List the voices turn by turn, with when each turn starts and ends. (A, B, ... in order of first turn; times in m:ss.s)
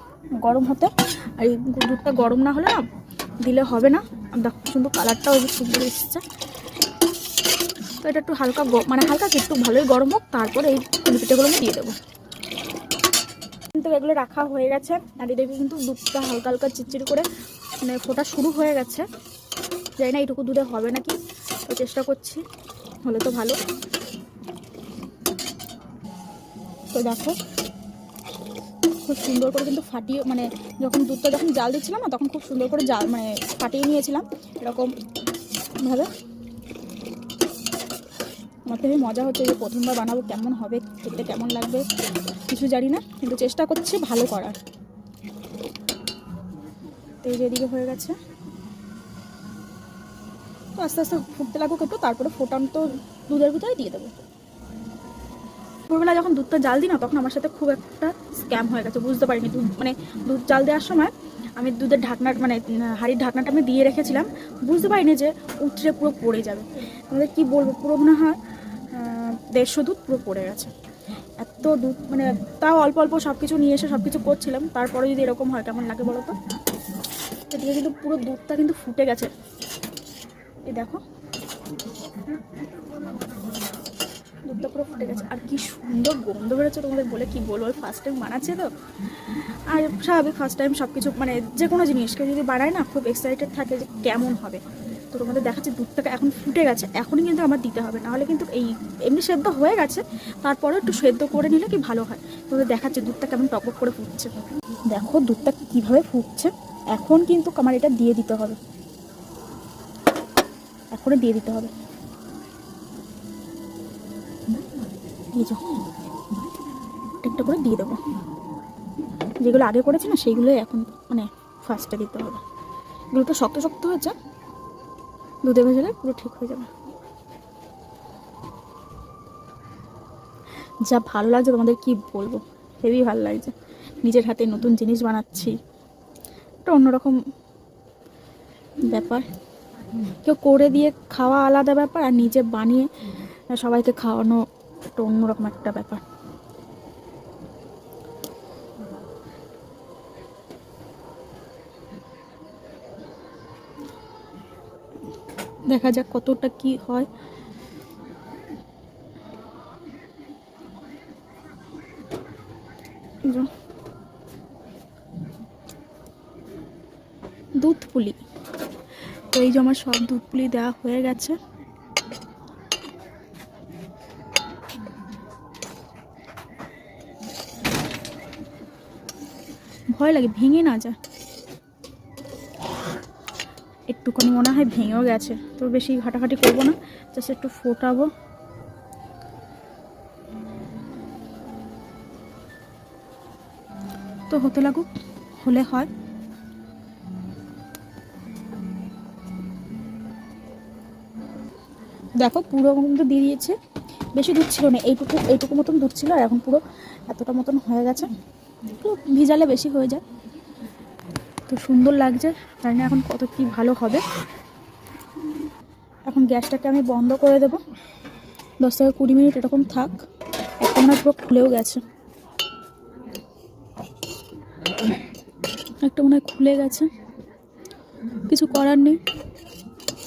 0:00.4-0:02.8 A
0:03.4-0:06.2 A
0:08.0-0:12.0 A
0:13.8-0:17.3 A
0:17.8-0:19.1 A
0:20.0-0:21.2 A
0:21.7-0:22.4 A
0:23.0-0:23.6 A
0:26.9-0:27.4 A
0:29.1-0:34.9 A
0:35.8-0:36.1 A
0:38.7-0:41.8 A
0:42.5-0:44.6 A
0:47.2-0:48.2 A
0:50.8-0:54.1 A
0:55.9-1:08.4 A
1:08.9-1:10.7 A
1:11.4-1:16.4 A
1:17.5-1:19.3 A
1:20.7-1:21.0 A
1:24.5-1:28.7 A
1:29.2-1:34.6 A
1:35.1-1:44.3 A
1:44.9-1:48.6 A
1:50.9-1:51.7 A
1:57.2-1:58.0 A
1:59.4-2:02.4 A
2:03.1-2:04.2 A
2:05.4-2:06.7 A
2:10.9-2:15.5 A
2:16.7-2:17.2 A
2:18.8-2:19.2 A
2:20.2-2:22.9 A
2:23.5-2:24.4 A
2:25.0-2:26.0 A
2:35.7-2:37.1 A
2:47.6-2:48.2 A
2:49.3-2:51.4 A
2:59.9-3:01.0 A
3:03.9-3:08.1 A
3:14.3-3:14.9 A
3:15.4-3:15.9 A
3:22.2-3:23.6 A
3:24.2-3:28.1 A
3:28.8-3:30.0 A
3:31.5-3:34.0 A
3:36.1-3:37.6 A
3:38.6-3:40.0 A
3:40.6-3:41.8 A
3:45.8-3:46.9 A
3:48.3-3:49.0 A